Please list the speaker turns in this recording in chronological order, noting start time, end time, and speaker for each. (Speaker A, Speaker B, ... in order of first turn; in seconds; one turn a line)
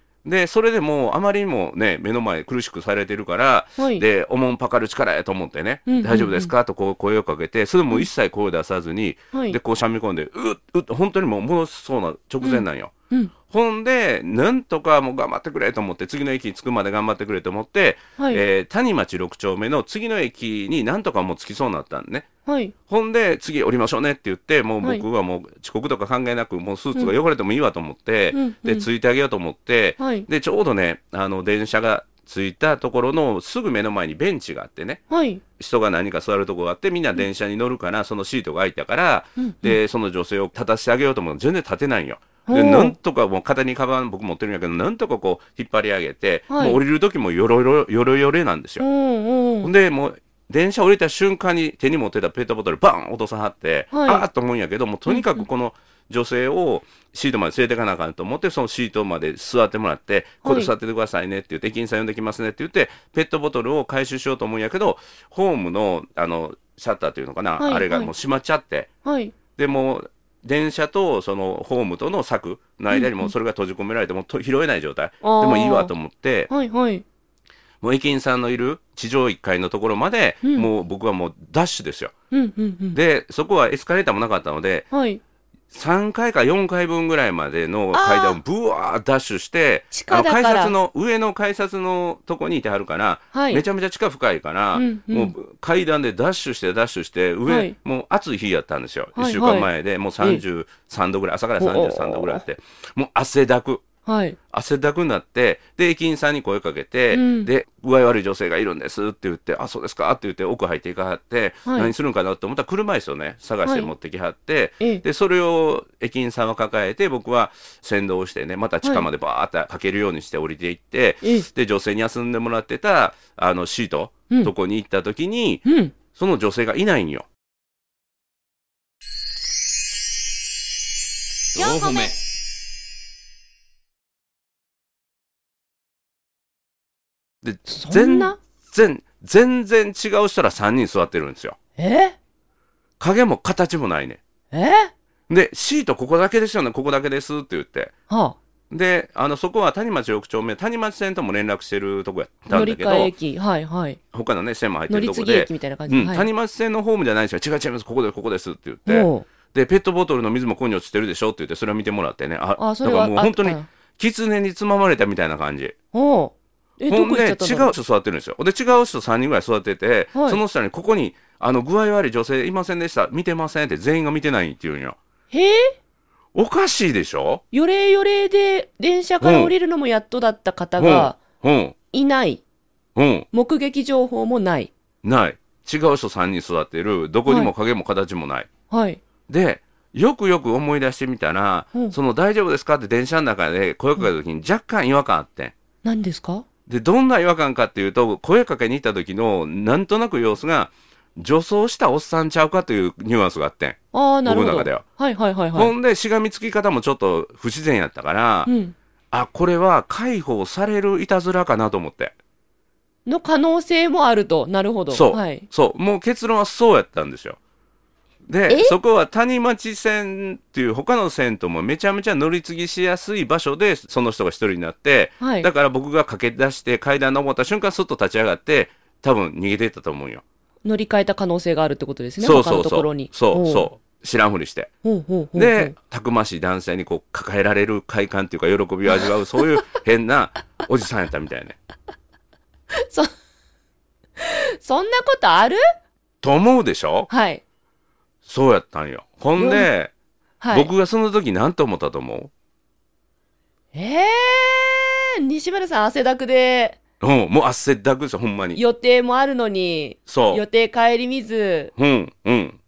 Speaker A: 0.2-12.9
Speaker B: 3.8-4.0
Speaker B: 5.9-6.5
Speaker B: 9.3-9.6
Speaker B: 12.4-13.3
Speaker A: 13.5-22.3
Speaker B: 18.2-18.4
Speaker B: 22.5-22.7
Speaker A: 22.9-35.0
Speaker B: 28.3-28.9
Speaker B: 30.0-30.3
Speaker B: 35.1-35.4
Speaker A: 35.6-48.9
Speaker B: 39.4-39.8
Speaker B: 42.5-43.0
Speaker B: 46.5-46.8
Speaker B: 48.8-49.7
Speaker A: 49.6-68.9
Speaker B: 53.9-54.2
Speaker B: 55.1-55.5
Speaker B: 60.4-60.7
Speaker B: 67.6-68.1
Speaker B: 69.0-69.3
Speaker A: 69.6-76.5
Speaker B: 72.9-73.3
Speaker B: 75.2-75.9
Speaker B: 76.5-77.0
Speaker A: 77.8-82.1
Speaker B: 80.4-80.7
Speaker B: 82.3-83.0
Speaker A: 82.9-84.9
Speaker B: 84.9-85.2
Speaker A: 85.7-103.8
Speaker B: 87.9-88.4
Speaker B: 89.9-90.7
Speaker B: 93.3-93.6
Speaker B: 94.7-95.3
Speaker B: 97.5-97.8
Speaker B: 99.2-99.7
Speaker B: 101.6-102.4
Speaker B: 104.1-104.4
Speaker A: 104.5-127.3
Speaker B: 107.1-107.5
Speaker B: 111.7-111.9
Speaker B: 113.7-113.9
Speaker B: 125.7-126.0
Speaker B: 131.6-132.1
Speaker A: 131.6-132.1
Speaker A: 137.4-141.6
Speaker B: 137.7-138.4
Speaker B: 141.8-142.2
Speaker A: 143.0-144.2
Speaker B: 144.5-144.9
Speaker A: 145.3-147.9
Speaker B: 148.1-148.4
Speaker A: 148.7-153.1
Speaker B: 152.5-154.0
Speaker A: 154.1-165.8
Speaker B: 154.9-156.3
Speaker B: 158.9-159.2
Speaker B: 162.6-163.7
Speaker B: 165.9-167.7
Speaker A: 166.9-175.0
Speaker B: 170.2-170.4
Speaker B: 175.3-175.8
Speaker A: 176.3-177.4
Speaker B: 177.5-181.2
Speaker A: 179.2-179.5
Speaker A: 180.8-181.8
Speaker B: 181.9-182.4
Speaker A: 183.0-183.3
Speaker B: 183.3-184.7
Speaker A: 185.0-188.5
Speaker B: 188.7-189.0
Speaker A: 189.3-195.5
Speaker B: 195.8-196.5
Speaker A: 196.7-204.8
Speaker B: 203.9-205.7
Speaker A: 205.6-208.5
Speaker B: 208.5-208.8
Speaker A: 209.1-212.2
Speaker B: 213.1-215.5
Speaker A: 214.9-217.4
Speaker A: 218.3-230.2
Speaker B: 218.5-218.8
Speaker B: 225.2-225.5
Speaker B: 230.6-233.7
Speaker A: 232.2-234.7
Speaker B: 234.8-235.7
Speaker A: 235.3-241.6
Speaker B: 242.7-243.1
Speaker B: 244.2-245.6
Speaker A: 246.2-247.1
Speaker B: 247.1-247.4
Speaker A: 248.2-249.9
Speaker B: 249.4-249.7
Speaker B: 250.4-250.7
Speaker A: 250.5-252.3
Speaker B: 253.7-256.8
Speaker A: 257.0-258.6
Speaker B: 258.6-261.7
Speaker A: 260.1-260.4
Speaker A: 261.8-262.6